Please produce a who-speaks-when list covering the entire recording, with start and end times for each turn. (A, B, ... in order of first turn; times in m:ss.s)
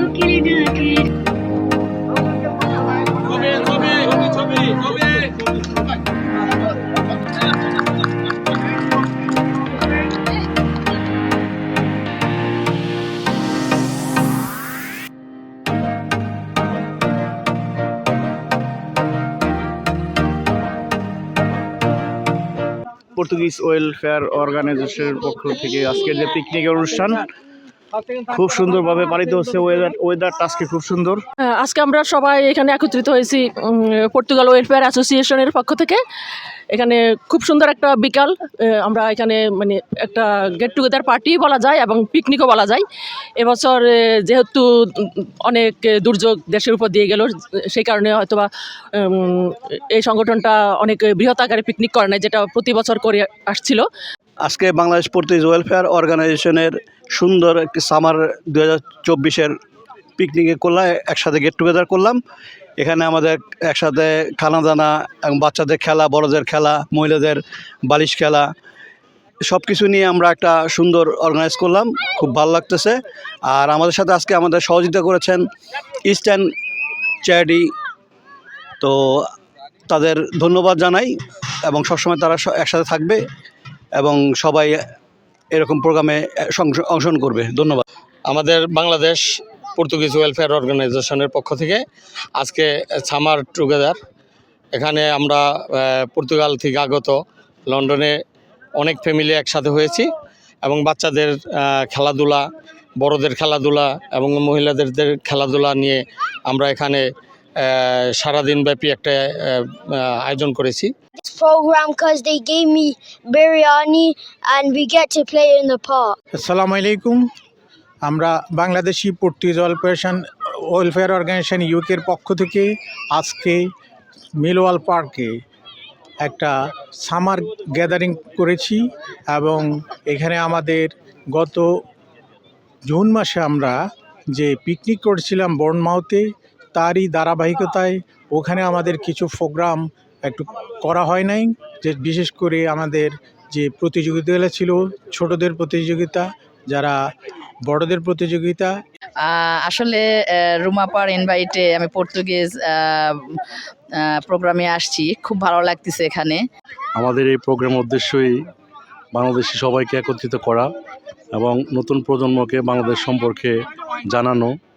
0:00.2-0:01.0 A
0:23.2-0:27.2 B
0:28.3-0:31.2 B
0:31.6-0:36.0 C
0:36.7-0:42.8 C
0:43.4-0:53.8 C
0:54.4-0:59.5 D
1:00.2-1:02.2 D
1:02.8-1:08.4 D
1:09.4-1:12.9 D
1:13.5-1:15.4 D
1:16.1-1:16.4 D
1:17.2-1:17.6 D
1:18.8-1:19.2 D
1:19.9-1:21.1 D
1:21.7-1:23.2 D
1:24.0-1:24.7 D
1:25.5-1:27.8 D
1:28.3-1:29.2 E
1:29.8-1:31.8 E
1:32.4-1:34.0 E
1:34.7-1:37.2 E
1:37.7-1:38.1 E
1:38.8-1:40.1 E
1:40.6-1:42.4 E
1:43.0-1:47.0 E
1:47.6-1:50.9 E
1:51.2-1:56.2 A
1:56.4-1:57.2 F
1:58.0-2:03.6 F
2:04.4-2:05.3 F
2:06.2-2:11.7 F
2:12.8-2:13.8 F
2:14.3-2:27.0 F
2:27.6-2:28.7 F
2:29.2-2:33.2 G
2:34.0-2:36.4 G
2:37.0-2:38.3 H
2:39.1-2:40.7 H
2:41.3-2:43.5 H
2:44.1-2:44.5 H